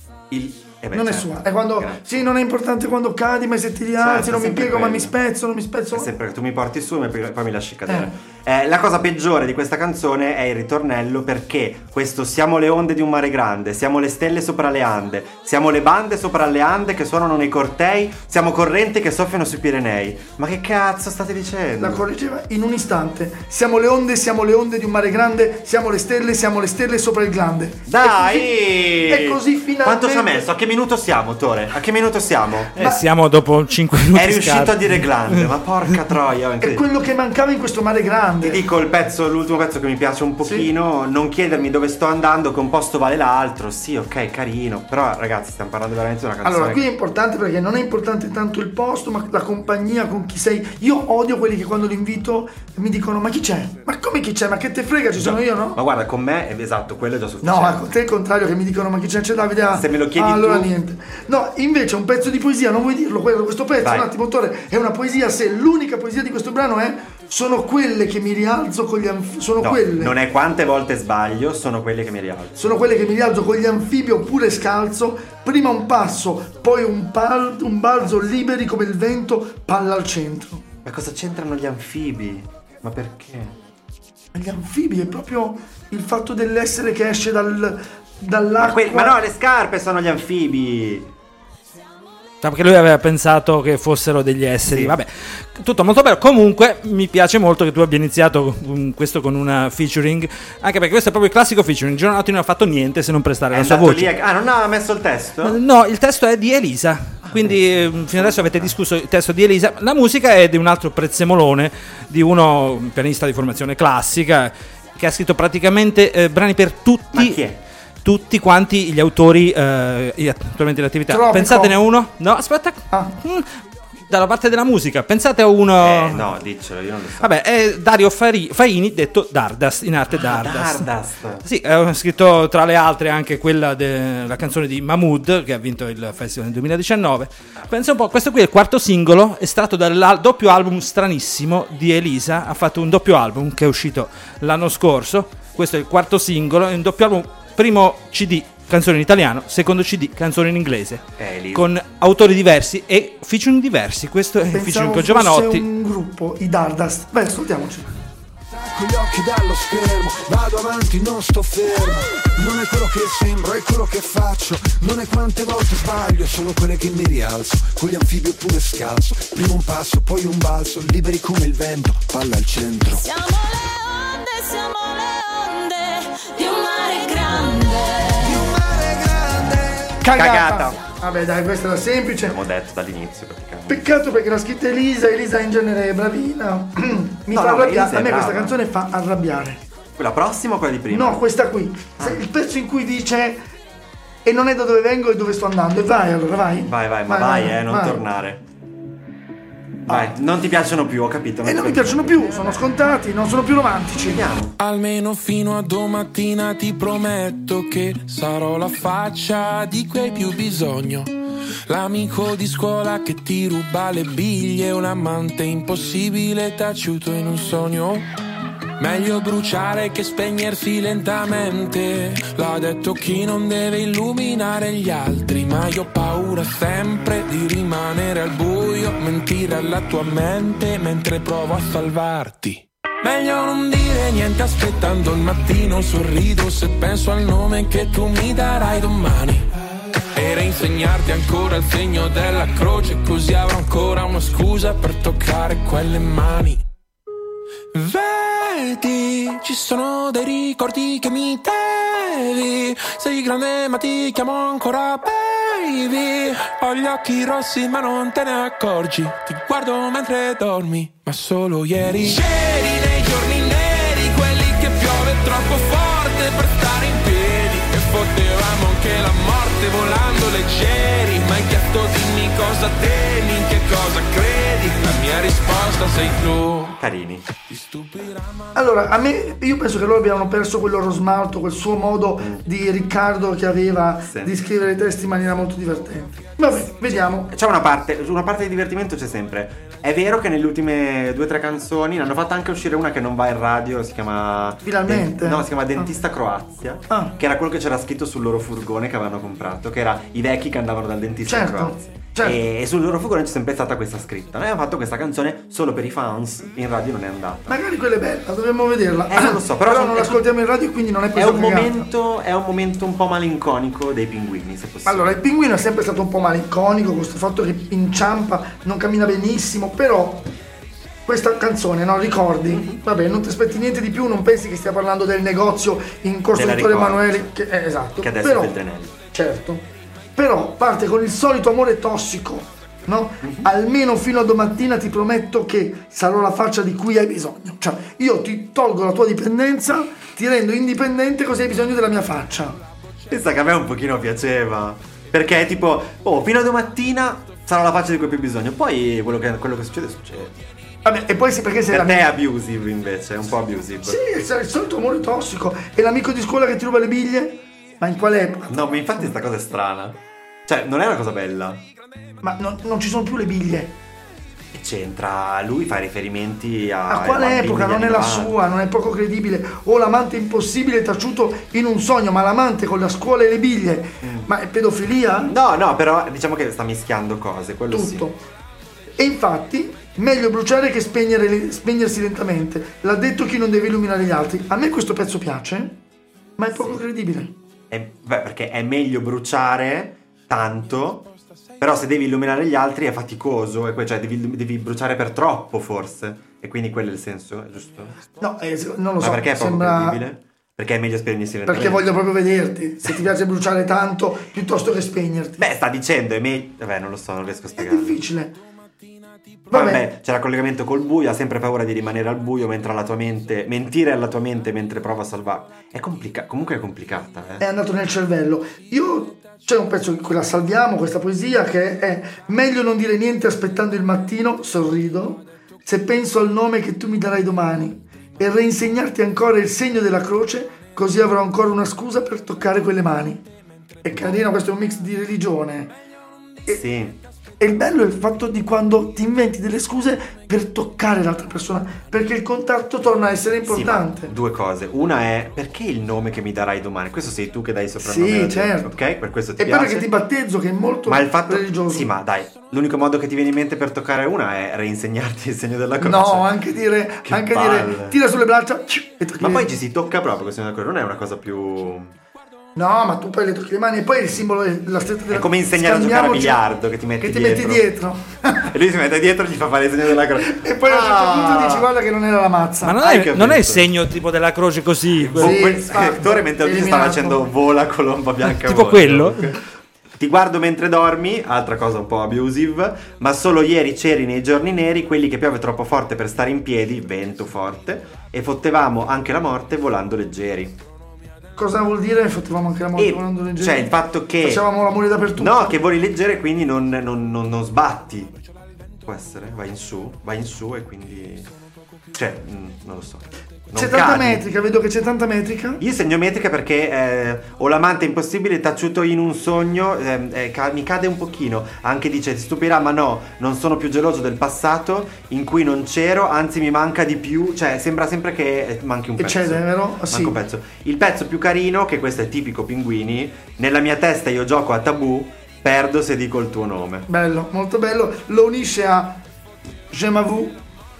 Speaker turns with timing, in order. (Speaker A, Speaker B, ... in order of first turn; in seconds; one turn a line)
Speaker A: 0.3-2.0
Speaker B: 0.9-6.1
Speaker A: 4.0-5.1
Speaker A: 5.9-22.1
Speaker B: 7.9-8.1
Speaker B: 21.8-30.4
Speaker A: 27.9-32.8
Speaker C: 32.8-35.5
Speaker A: 34.1-36.9
Speaker B: 36.6-38.6
Speaker A: 38.4-46.8
Speaker B: 40.4-40.7
Speaker B: 46.4-55.8
Speaker A: 55.1-57.9
Speaker B: 57.4-70.1
Speaker A: 59.7-60.7
Speaker A: 63.8-64.1
Speaker A: 69.6-72.6
Speaker B: 72.5-80.6
Speaker A: 80.8-83.5
Speaker B: 84.3-89.2
Speaker A: 88.6-91.1
Speaker C: 92.4-104.1
Speaker A: 94.6-95.0
Speaker A: 103.5-105.6
Speaker C: 105.4-117.4
Speaker A: 107.2-108.7
Speaker A: 117.1-117.6
Speaker C: 118.0-123.5
Speaker B: 121.1-121.8
Speaker C: 124.1-126.3
Speaker A: 125.8-127.3
Speaker C: 127.2-130.9
Speaker A: 130.1-131.4
Speaker C: 131.4-155.6
Speaker A: 151.2-151.7
Speaker B: 154.5-157.9
Speaker D: 158.5-173.0
Speaker E: 172.9-178.5
Speaker D: 178.2-180.0
Speaker B: 180.0-182.4
Speaker A: 180.1-180.8
Speaker A: 182.3-183.8
Speaker B: 183.7-189.6
Speaker A: 187.3-188.6
Speaker A: 190.0-191.2
Speaker B: 190.9-193.4
Speaker B: 194.2-198.0
Speaker A: 196.7-198.4
Speaker A: 199.9-202.6
Speaker B: 201.4-204.2
Speaker A: 204.0-204.5
Speaker F: 204.6-211.1
Speaker F: 211.7-218.1
Speaker F: 218.8-239.5
Speaker F: 240.1-246.6
Speaker F: 247.7-276.8
Speaker A: 276.8-277.2
Speaker F: 277.4-278.5
Speaker B: 278.5-287.3
Speaker A: 282.2-282.4
Speaker A: 284.1-284.3
Speaker A: 287.3-307.6
Speaker B: 294.6-295.9
Speaker B: 296.9-297.1
Speaker B: 301.2-302.4
Speaker B: 307.5-311.9
Speaker A: 309.1-310.2
Speaker A: 311.1-315.1
Speaker B: 314.9-320.3
Speaker B: 321.1-328.5
Speaker A: 322.5-322.8
Speaker A: 326.3-327.3
Speaker A: 328.0-328.9
Speaker B: 329.1-342.6
Speaker A: 333.2-333.5
Speaker A: 343.1-350.4
Speaker B: 350.8-352.1
Speaker A: 351.7-354.0
Speaker B: 353.8-359.1
Speaker A: 358.5-361.6
Speaker B: 362.2-363.8
Speaker A: 364.5-368.4
Speaker B: 366.9-375.3
Speaker A: 374.0-374.3
Speaker A: 375.2-378.1
Speaker B: 377.7-378.2
Speaker B: 379.0-385.8
Speaker B: 386.4-387.3
Speaker A: 386.5-386.8
Speaker A: 387.7-391.1
Speaker A: 391.6-398.0
Speaker B: 398.2-400.0
Speaker A: 399.0-402.0
Speaker B: 401.4-405.4
Speaker A: 405.4-408.0
Speaker B: 407.6-408.3
Speaker A: 409.5-417.4
Speaker B: 409.5-409.8
Speaker B: 417.4-433.2
Speaker B: 433.8-435.7
Speaker A: 436.5-437.0
Speaker B: 437.4-444.1
Speaker A: 443.5-449.9
Speaker B: 447.8-448.7
Speaker B: 449.4-451.9
Speaker A: 450.9-456.4
Speaker B: 455.8-459.5
Speaker A: 457.0-458.0
Speaker A: 459.2-461.9
Speaker B: 462.6-466.4
Speaker A: 465.1-467.7
Speaker B: 467.0-468.5
Speaker A: 468.5-471.7
Speaker B: 470.2-472.8
Speaker C: 472.6-475.4
Speaker A: 472.8-473.7
Speaker A: 474.9-479.4
Speaker B: 475.2-477.2
Speaker C: 478.3-479.2
Speaker A: 480.0-490.6
Speaker B: 491.4-495.6
Speaker A: 492.8-494.5
Speaker A: 495.1-498.1
Speaker A: 498.8-501.3
Speaker A: 501.9-504.2
Speaker B: 503.5-505.6
Speaker A: 505.6-526.9
Speaker B: 519.0-520.2
Speaker B: 526.9-529.0
Speaker B: 529.7-530.4